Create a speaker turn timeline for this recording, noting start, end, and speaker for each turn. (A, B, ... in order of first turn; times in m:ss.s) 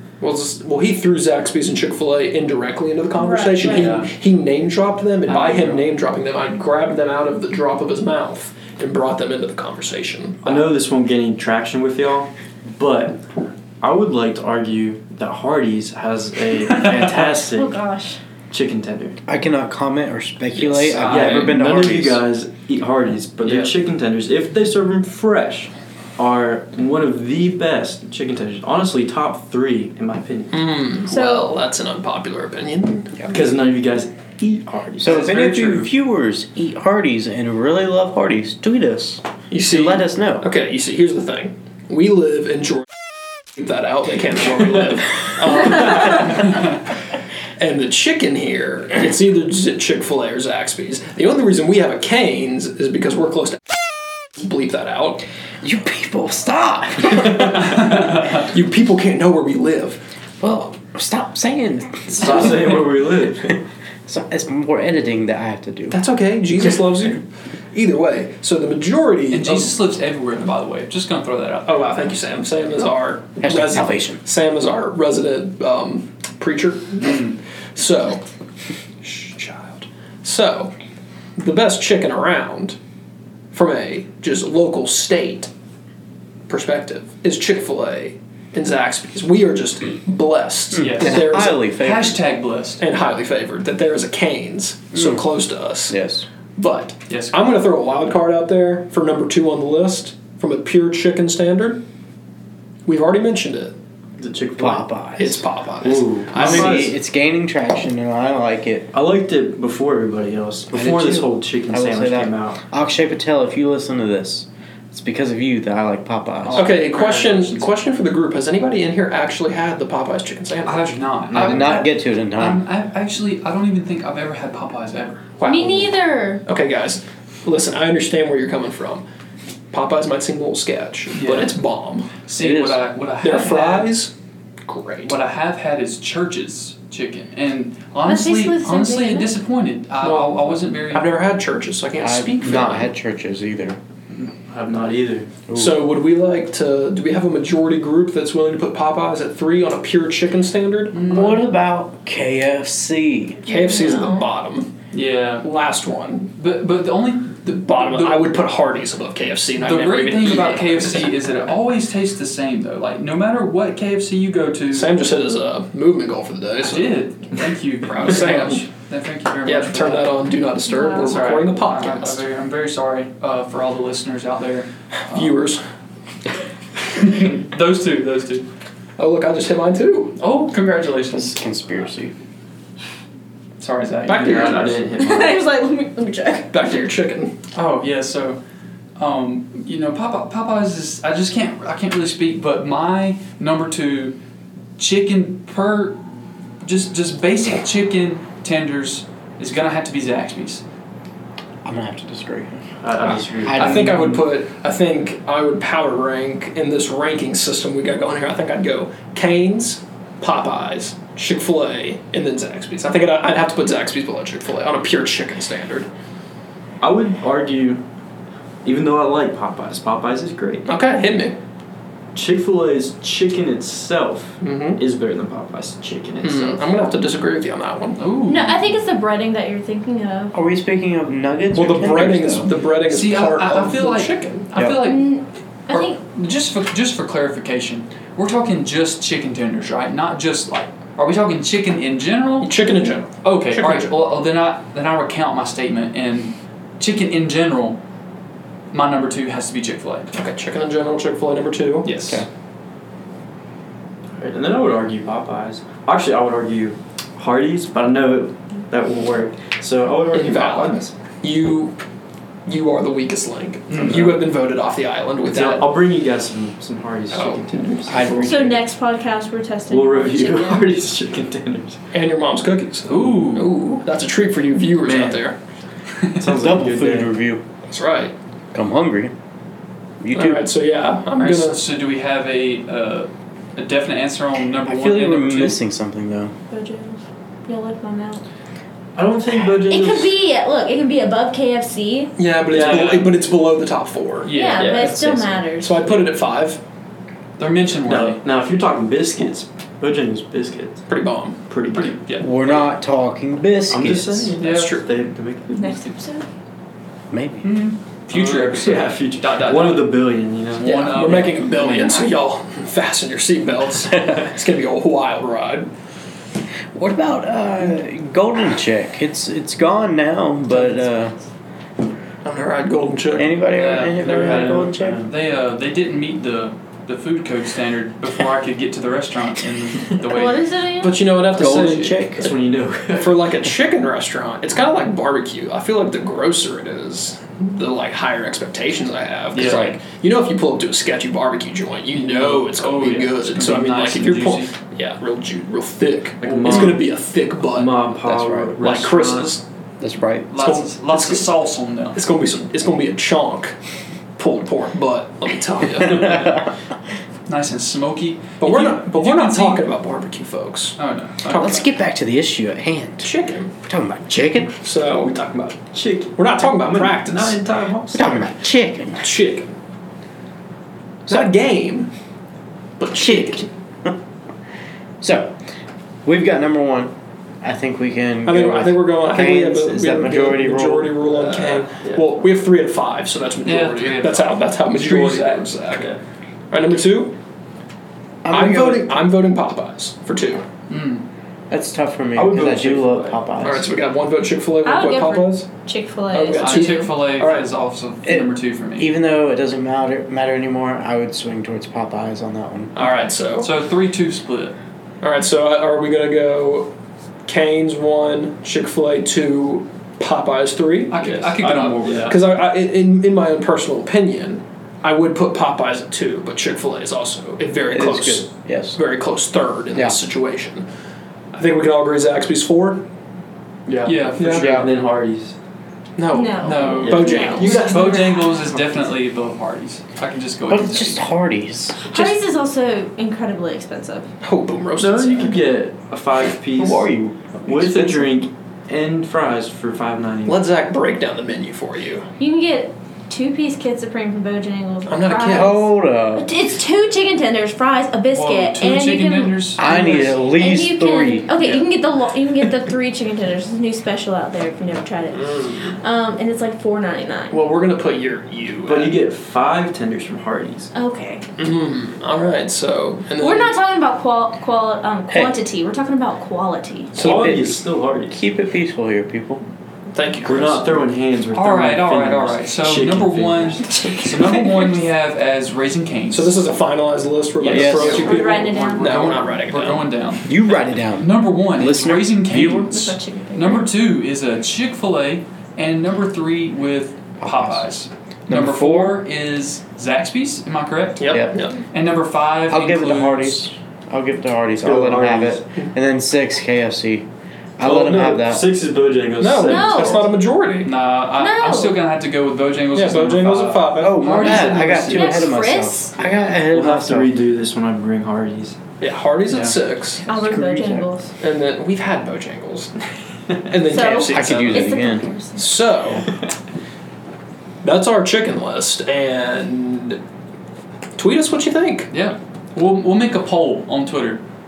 0:00.2-0:10.7 A
0:03.2-0:04.0 B
0:03.6-0:04.1 C
0:05.3-0:05.8 C
0:10.4-0:13.2 D
0:13.8-0:17.8 D
0:16.7-0:17.1 C
0:17.3-0:18.2 B
0:18.5-0:19.2 D
0:19.3-0:22.2 E
0:20.6-0:21.6 C
0:20.7-0:21.0 A
0:21.0-0:30.7 D
0:30.5-0:33.3 A
0:31.1-0:31.5 B
0:33.3-0:35.9 D
0:35.0-0:40.5 E
0:39.5-0:42.9 A
0:43.6-0:46.7 A
0:47.6-0:53.7 A
0:54.4-0:55.2 A
0:55.6-0:57.8 E
0:57.2-1:00.0 A
1:00.4-1:02.8 E
1:02.1-1:03.6 D
1:04.1-1:06.0 E
1:05.9-1:09.8 A
1:09.3-1:11.9 C
1:11.6-1:18.2 A
1:13.4-1:14.2 E
1:19.0-1:20.7 A
1:21.4-1:22.8 A
1:23.5-1:25.5 A
1:26.5-1:31.6 A
1:30.8-1:32.2 E
1:30.8-1:32.8 C
1:32.8-1:36.0 A
1:35.0-1:35.2 E
1:35.9-1:36.3 E
1:36.6-1:41.8 A
1:37.1-1:37.4 C
1:42.9-1:43.8 A
1:44.2-1:44.9 D
1:44.6-1:45.4 E
1:45.2-1:46.9 A
1:45.8-1:46.9 D
1:46.3-1:48.9 E
1:48.9-1:52.6 D
1:50.7-1:56.7 E
1:56.4-1:57.7 C
1:56.6-2:01.0 A
2:00.6-2:05.4 C
2:01.3-2:02.6 E
2:05.4-2:05.9 A
2:05.4-2:06.4 B
2:06.4-2:09.0 A
2:09.7-2:12.1 A
2:11.1-2:11.5 C
2:12.2-2:14.0 C
2:12.4-2:12.8 E
2:13.2-2:14.1 A
2:14.6-2:15.2 A
2:15.1-2:21.2 C
2:18.0-2:19.3 B
2:20.0-2:22.9 A
2:22.0-2:23.8 E
2:24.2-2:25.3 D
2:25.5-2:25.8 E
2:25.6-2:31.3 A
2:30.9-2:31.5 C
2:31.1-2:33.4 E
2:33.5-2:34.7 A
2:33.5-2:34.3 B
2:34.9-2:35.5 C
2:35.4-2:36.3 A
2:36.4-2:38.3 C
2:37.6-2:41.1 A
2:39.6-2:45.0 C
2:44.7-2:47.0 A
2:46.6-2:50.2 C
2:47.9-2:48.6 A
2:49.5-2:52.2 A
2:50.6-2:51.2 B
2:51.0-2:55.4 C
2:55.1-2:55.6 A
2:57.0-2:58.5 C
2:59.0-3:00.2 A
3:00.2-3:01.4 C
3:01.1-3:02.1 E
3:03.6-3:04.7 C
3:04.1-3:04.8 A
3:04.1-3:05.4 D
3:05.0-3:06.5 B
3:06.5-3:07.4 A
3:07.6-3:08.4 C
3:09.0-3:14.2 C
3:14.8-3:16.0 C
3:16.6-3:20.6 C
3:21.6-3:22.7 E
3:22.8-3:23.9 D
3:23.4-3:24.2 E
3:23.5-3:35.9 A
3:36.8-3:37.8 D
3:38.6-3:40.6 D
3:40.6-3:41.4 A
3:42.1-3:46.6 D
3:44.4-3:44.8 A
3:46.2-3:48.0 A
3:48.0-3:48.7 C
3:48.3-3:50.3 B
3:50.3-3:52.5 E
3:51.5-3:54.4 A
3:52.8-3:55.2 C
3:54.6-3:54.8 E
3:54.8-3:56.0 B
3:55.7-4:02.7 C
4:02.4-4:03.9 A
4:03.2-4:07.8 C
4:08.7-4:10.1 C
4:10.1-4:11.9 A
4:11.8-4:12.2 C
4:14.2-4:20.9 D
4:20.1-4:21.8 A
4:22.5-4:25.8 A
4:23.7-4:24.2 C
4:23.9-4:24.2 D
4:25.2-4:28.5 D
4:27.1-4:27.8 A
4:27.9-4:28.6 E
4:28.2-4:30.8 B
4:29.7-4:31.8 D
4:31.9-4:35.4 A
4:32.9-4:33.6 C
4:34.8-4:35.2 D
4:36.2-4:37.1 D
4:36.3-4:37.4 E
4:37.7-4:38.1 A
4:38.5-4:39.1 E
4:40.0-4:40.5 E
4:40.1-4:41.6 A
4:41.2-4:45.6 C
4:44.6-4:46.3 E
4:46.5-4:48.2 B
4:49.0-4:50.1 D
4:49.7-4:52.1 B
4:52.2-4:54.3 A
4:52.5-4:53.1 D
4:52.5-4:53.1 C
4:54.2-4:55.0 C
4:54.3-4:55.8 B
4:54.6-4:55.2 D
4:55.6-4:56.6 A
4:57.4-4:58.2 C
4:57.8-5:00.8 D
5:00.9-5:02.2 A
5:01.5-5:02.0 D
5:02.2-5:04.3 E
5:03.7-5:05.8 D
5:04.4-5:04.8 C
5:05.6-5:06.3 B
5:07.1-5:07.5 E
5:07.4-5:10.0 C
5:08.1-5:11.4 D
5:10.6-5:12.1 C
5:10.6-5:15.7 A
5:16.7-5:21.1 E
5:20.5-5:20.8 A
5:22.2-5:23.4 A
5:23.1-5:25.0 E
5:23.5-5:30.4 C
5:24.0-5:24.6 A
5:24.8-5:25.1 D
5:30.0-5:31.0 B
5:30.8-5:32.3 A
5:31.4-5:32.3 E
5:32.1-5:33.2 D
5:32.9-5:47.8 A
5:39.3-5:39.7 C
5:39.4-5:39.8 E
5:41.9-5:44.5 C
5:46.2-5:46.9 D
5:46.4-5:46.8 C
5:47.5-5:49.4 D
5:48.0-5:48.6 E
5:48.6-5:49.4 A
5:49.8-5:50.3 E
5:50.3-5:52.0 C
5:50.4-5:51.3 A
5:52.0-5:53.6 A
5:54.2-5:56.4 A
5:57.3-5:59.6 C
5:58.4-6:00.8 A
6:00.8-6:01.6 C
6:01.3-6:03.1 E
6:01.3-6:01.6 A
6:03.0-6:03.5 A
6:03.6-6:04.6 E
6:04.6-6:05.6 A
6:05.6-6:08.2 D
6:06.1-6:07.4 A
6:07.9-6:09.1 E
6:09.0-6:09.5 A
6:11.1-6:11.9 A
6:12.8-6:13.5 A
6:12.9-6:13.9 E
6:15.0-6:15.4 E
6:16.0-6:21.2 E
6:18.2-6:26.0 A
6:21.3-6:22.0 D
6:23.4-6:25.4 C
6:25.7-6:26.0 D
6:26.5-6:27.2 A
6:28.2-6:29.0 E
6:28.3-6:30.5 A
6:30.7-6:31.0 C
6:31.5-6:33.7 E
6:32.1-6:33.5 D
6:33.4-6:35.5 A
6:34.6-6:36.9 B
6:36.1-6:37.5 A
6:36.4-6:38.9 C
6:38.0-6:42.9 E
6:42.8-6:43.5 A
6:43.4-6:44.6 C
6:45.0-6:46.7 A
6:47.3-7:00.6 A
6:50.9-6:52.2 C
6:51.4-6:52.2 D
6:57.7-6:58.8 E
6:59.7-7:00.0 E
7:01.3-7:02.9 A
7:03.7-7:05.4 D
7:03.8-7:04.6 C
7:04.2-7:04.5 A
7:04.4-7:04.7 E
7:06.0-7:08.1 A
7:06.1-7:08.3 B
7:06.4-7:11.0 C
7:06.8-7:07.9 D
7:10.5-7:12.1 E
7:11.9-7:14.1 B
7:14.2-7:15.5 A
7:14.8-7:16.9 D
7:16.6-7:18.0 E
7:17.4-7:20.4 D
7:20.2-7:22.1 A
7:22.2-7:37.4 B
7:24.9-7:25.7 A
7:25.3-7:26.3 E
7:28.1-7:30.2 C
7:29.6-7:31.3 E
7:31.4-7:31.6 C
7:35.2-7:35.7 A
7:37.3-7:39.0 A
7:38.6-7:40.7 D
7:40.7-7:41.2 B
7:41.4-7:43.5 A
7:43.2-7:46.9 B
7:46.9-7:47.5 A
7:47.0-7:48.2 D
7:47.0-7:49.4 E
7:49.9-7:50.9 A
7:50.2-7:54.0 D
7:51.3-7:56.4 C
7:56.1-7:59.9 A
7:57.4-8:00.4 C
7:57.5-7:58.1 E
7:57.5-7:57.8 D
7:57.7-7:59.1 B
8:00.3-8:02.7 E
8:01.0-8:13.5 C
8:02.7-8:03.7 B
8:07.2-8:07.7 E
8:08.3-8:09.0 E
8:11.0-8:11.6 A
8:12.5-8:17.1 E
8:14.6-8:15.4 D
8:17.6-8:18.5 E
8:17.6-8:20.1 D
8:19.2-8:20.7 A
8:19.4-8:20.1 B
8:20.6-8:25.3 C
8:21.2-8:21.8 B
8:22.8-8:24.6 A
8:23.8-8:27.1 E
8:24.7-8:26.0 B
8:26.5-8:28.6 D
8:28.8-8:30.1 A
8:29.3-8:29.6 C
8:30.1-8:31.1 B
8:30.1-8:30.9 E
8:31.2-8:32.7 A
8:33.4-8:34.8 A
8:33.6-8:35.6 B
8:33.9-8:35.0 E
8:35.4-8:36.1 A
8:37.6-8:40.0 A
8:41.0-8:41.9 A
8:41.9-8:44.2 C